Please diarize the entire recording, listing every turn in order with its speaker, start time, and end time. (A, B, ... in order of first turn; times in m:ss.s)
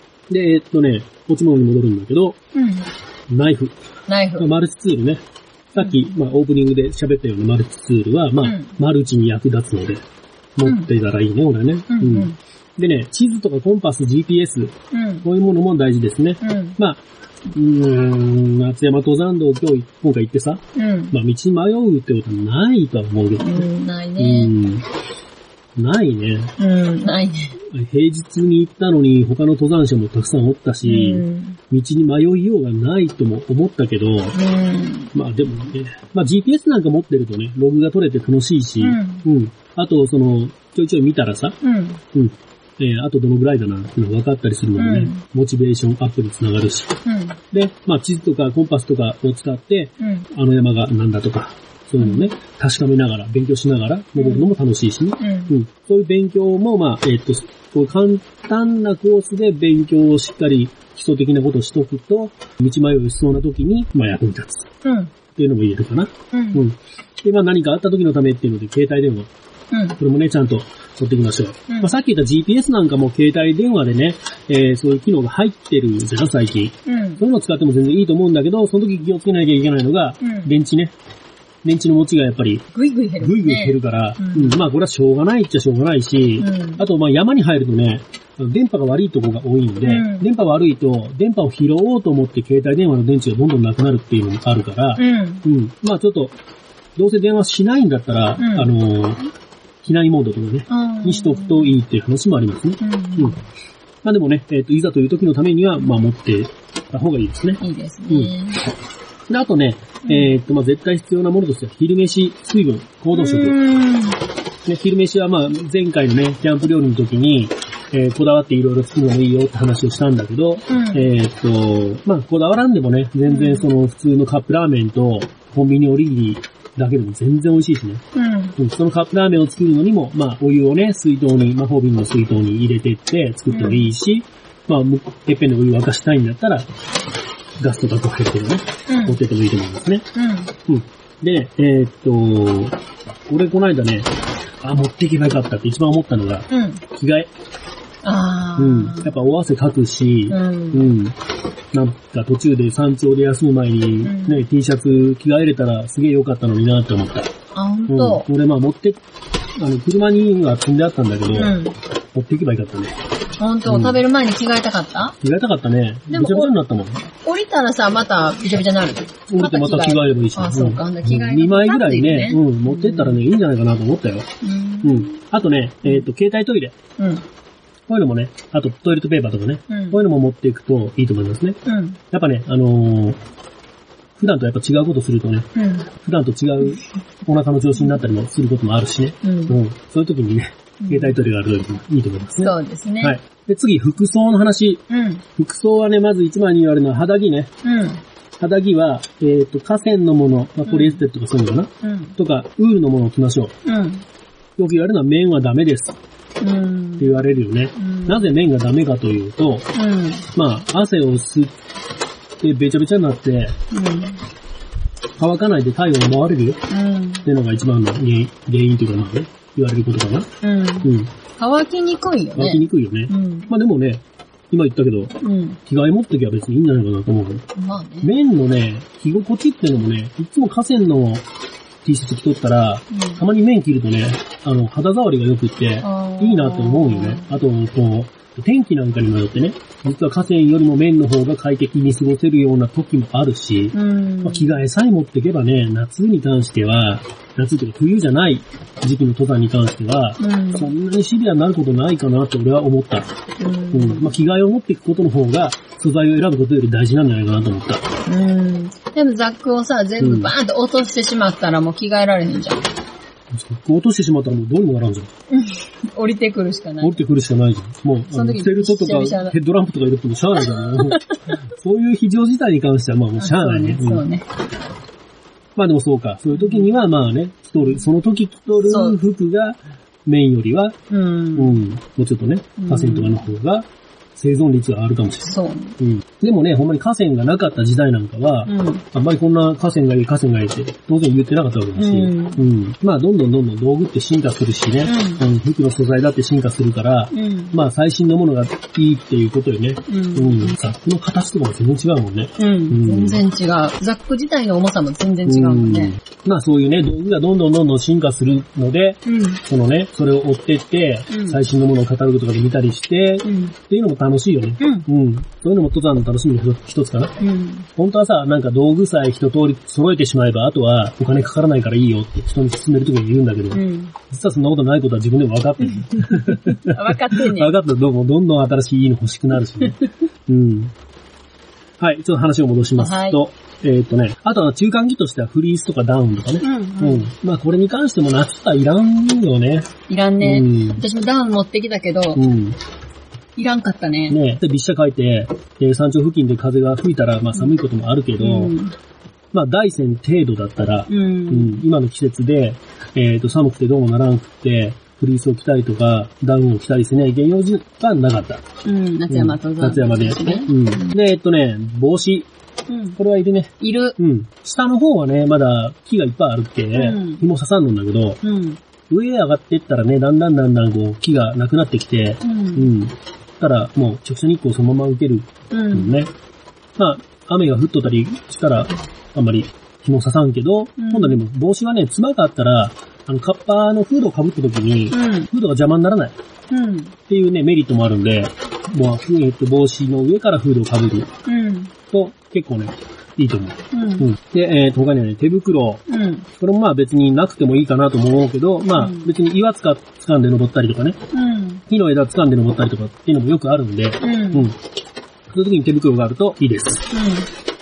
0:00.3-0:02.4 A
0:02.5-0:02.9 B
0:03.3-0:03.8 A
0:04.1-0:04.5 B
0:04.4-0:05.2 A
0:05.7-0:10.0 A
0:08.4-0:08.8 B
0:10.6-0:23.7 A
0:11.9-0:12.4 B
0:14.9-0:15.3 B
0:16.4-0:16.8 B
0:20.7-0:21.1 B
0:23.4-0:24.5 B
0:24.2-0:24.8 A
0:25.8-0:26.5 A
0:26.6-0:27.6 B
0:27.6-0:34.4 A
0:30.8-0:31.6 B
0:34.4-0:35.1 B
0:35.1-0:41.6 A
0:38.8-0:39.2 B
0:41.6-0:42.0 B
0:42.1-0:47.0 A
0:44.8-0:45.2 B
0:47.0-0:47.4 B
0:47.5-1:04.7 A
0:50.0-0:50.3 B
0:52.0-0:52.3 B
0:54.2-0:54.5 B
0:55.2-0:55.5 B
1:04.8-1:05.1 B
1:05.3-1:09.3 A
1:06.3-1:06.6 B
1:09.7-1:10.0 B
1:10.0-1:21.0 A
1:11.7-1:11.9 B
1:16.8-1:17.2 B
1:20.2-1:20.5 B
1:21.6-1:22.7 A
1:22.7-1:24.6 B
1:23.2-1:36.4 A
1:26.4-1:26.8 B
1:29.8-1:30.3 B
1:35.0-1:35.4 B
1:37.0-1:39.2 A
1:38.4-1:38.7 B
1:39.8-1:43.4 A
1:40.7-1:41.8 B
1:42.8-1:43.4 B
1:44.0-1:48.3 A
1:47.6-1:48.6 B
1:49.3-1:53.6 A
1:50.0-1:50.3 B
1:53.1-1:54.2 B
1:54.6-2:08.0 A
2:00.7-2:01.1 B
2:03.3-2:03.7 B
2:08.1-2:08.6 B
2:08.6-2:16.6 A
2:13.5-2:13.9 B
2:17.6-2:20.1 A
2:18.9-2:19.2 B
2:20.1-2:20.5 B
2:20.7-2:24.1 A
2:24.6-2:27.3 A
2:26.5-2:26.8 B
2:28.0-2:29.2 B
2:28.6-2:31.2 A
2:30.3-2:30.9 B
2:31.7-2:37.3 A
2:34.0-2:34.5 B
2:37.5-2:38.3 B
2:37.9-2:39.0 A
2:39.6-2:41.6 A
2:41.4-2:41.8 B
2:42.1-2:43.0 A
2:43.4-2:45.2 B
2:43.6-2:44.0 A
2:45.2-2:47.1 A
2:46.1-2:46.6 B
2:47.2-2:53.2 B
2:49.3-2:54.3 A
2:54.4-2:55.2 B
2:54.8-2:56.8 A
2:57.0-2:57.2 B
2:57.9-3:03.2 A
2:59.7-3:00.0 B
3:01.6-3:02.0 B
3:04.2-3:14.8 A
3:05.6-3:05.9 B
3:09.2-3:09.6 B
3:10.8-3:11.2 B
3:12.4-3:13.2 B
3:14.9-3:15.2 B
3:15.4-3:17.5 A
3:17.6-3:18.0 B
3:18.4-3:23.6 A
3:20.7-3:21.0 B
3:21.8-3:22.2 B
3:23.6-3:24.0 B
3:24.6-3:26.0 A
3:26.4-3:27.2 B
3:27.0-3:29.7 A
3:27.8-3:28.3 B
3:29.7-3:30.2 B
3:30.3-3:31.5 A
3:32.4-3:33.6 A
3:33.7-3:34.2 B
3:35.2-3:36.7 A
3:36.7-3:37.3 B
3:37.2-3:40.3 A
3:40.4-3:43.5 B
3:40.8-3:41.1 A
3:42.4-3:47.5 A
3:45.2-3:45.6 B
3:47.6-3:48.1 B
3:48.0-3:51.2 A
3:51.8-4:13.1 A
3:52.9-3:53.2 B
3:55.8-3:57.4 B
4:03.7-4:04.6 B
4:10.2-4:10.7 B
4:13.4-4:14.1 B
4:13.7-4:17.9 A
4:18.1-4:22.7 B
4:20.0-4:20.3 A
4:23.3-4:25.1 A
4:25.3-4:27.0 B
4:26.8-4:34.0 A
4:28.1-4:29.4 B
4:30.4-4:31.3 B
4:33.2-4:34.3 B
4:35.6-4:40.8 A
4:36.4-4:36.7 B
4:38.6-4:39.0 B
4:40.9-4:41.6 B
4:41.4-5:03.2 A
4:42.6-4:43.2 B
4:45.2-4:45.8 B
4:48.5-4:48.8 B
4:51.8-4:52.4 B
4:54.8-4:55.2 B
4:57.1-4:57.6 B
4:59.9-5:00.6 B
5:02.4-5:06.0 B
5:05.3-5:17.2 A
5:09.1-5:09.4 B
5:11.1-5:11.4 B
5:13.2-5:13.6 B
5:14.6-5:14.9 B
5:17.2-5:17.7 B
5:17.8-5:30.7 A
5:23.5-5:24.0 B
5:25.7-5:27.5 B
5:31.8-5:40.8 A
5:32.8-5:33.2 B
5:36.4-5:37.1 B
5:39.9-5:42.2 B
5:42.2-5:42.6 A
5:43.4-5:44.2 B
5:44.1-5:48.6 A
5:48.2-5:48.8 B
5:49.3-5:58.5 A
5:50.9-5:51.6 B
5:58.6-6:01.0 B
5:59.1-6:02.3 A
6:02.7-6:03.0 B
6:03.0-6:08.2 A
6:03.6-6:04.0 B
6:06.7-6:07.2 B
6:08.2-6:08.6 B
6:08.9-6:16.1 A
6:12.2-6:12.7 B
6:15.5-6:15.9 B
6:16.8-6:26.2 A
6:20.8-6:21.2 B
6:24.9-6:25.3 B
6:26.5-6:26.9 B
6:27.1-6:31.1 A
6:31.3-6:31.7 B
6:31.9-6:35.8 A
6:33.7-6:34.1 B
6:35.9-6:36.3 B
6:36.4-6:41.0 A
6:38.8-6:39.1 B
6:41.1-6:41.6 B
6:41.7-6:44.6 A
6:44.0-6:44.5 B
6:45.3-6:46.9 A
6:46.9-6:47.3 B